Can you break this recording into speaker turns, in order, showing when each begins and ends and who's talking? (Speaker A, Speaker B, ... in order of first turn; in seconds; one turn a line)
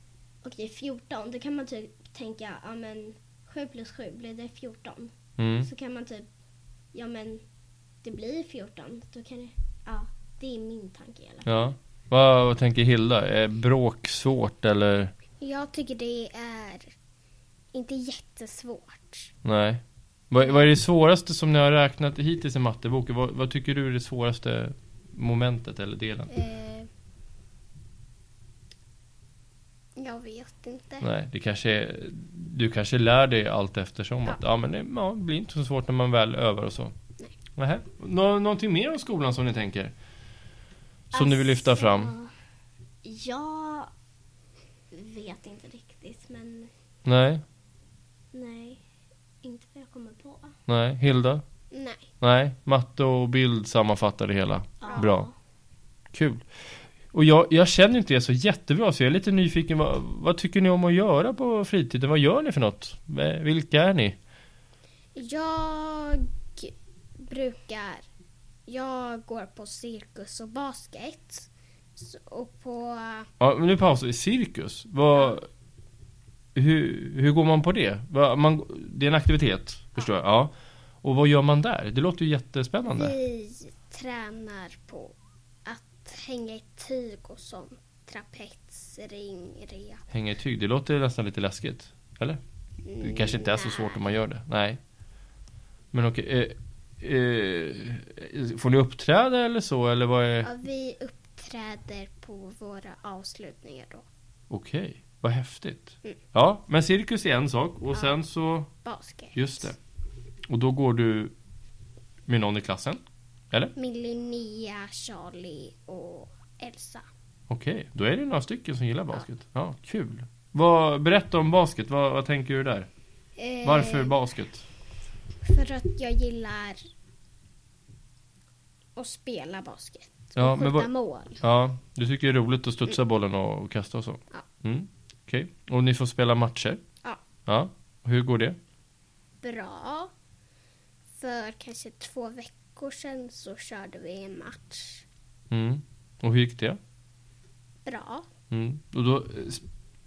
Speaker A: 0.4-6.3
Speaker B: 5.4-5.7
Speaker A: 6.9-7.4
Speaker A: 8.0-11.5
Speaker B: 11.4-15.1
Speaker C: 15.4-16.9
Speaker C: 17.7-19.3
Speaker B: 19.4-26.3
Speaker C: 26.3-26.9
Speaker C: 29.9-31.1
Speaker B: 31.0-36.9
Speaker B: 37.6-39.9
Speaker B: 41.1-42.1
Speaker A: 41.1-42.2
Speaker A: 43.0-43.9
Speaker A: 44.9-46.7
Speaker B: 47.0-47.4
Speaker A: 48.3-48.8
Speaker A: 49.4-50.6
Speaker B: 50.7-51.4
Speaker C: 51.7-52.0
Speaker B: 52.2-55.3
Speaker A: 54.8-55.3
Speaker B: 56.1-56.6
Speaker B: 57.1-64.2
Speaker C: 65.1-68.0
Speaker C: 68.7-73.3
Speaker B: 73.4-75.5
Speaker B: 76.5-83.2
Speaker C: 82.9-90.0
Speaker B: 90.1-92.4
Speaker C: 92.9-94.0
Speaker B: 93.0-94.8
Speaker B: 95.9-100.5
Speaker C: 100.4-104.0
Speaker B: 104.5-108.7
Speaker C: 108.8-109.7
Speaker B: 109.3-109.8
Speaker B: 110.5-111.3
Speaker B: 112.3-113.7
Speaker C: 113.8-117.0
Speaker B: 117.5-122.9
Speaker C: 123.4-124.2
Speaker B: 123.6-124.7
Speaker C: 125.4-126.8
Speaker C: 128.9-131.4
Speaker B: 130.4-136.8
Speaker B: 137.4-138.6
Speaker C: 139.4-140.1
Speaker C: 141.2-145.0
Speaker B: 145.5-146.8
Speaker C: 147.8-148.2
Speaker B: 148.5-149.6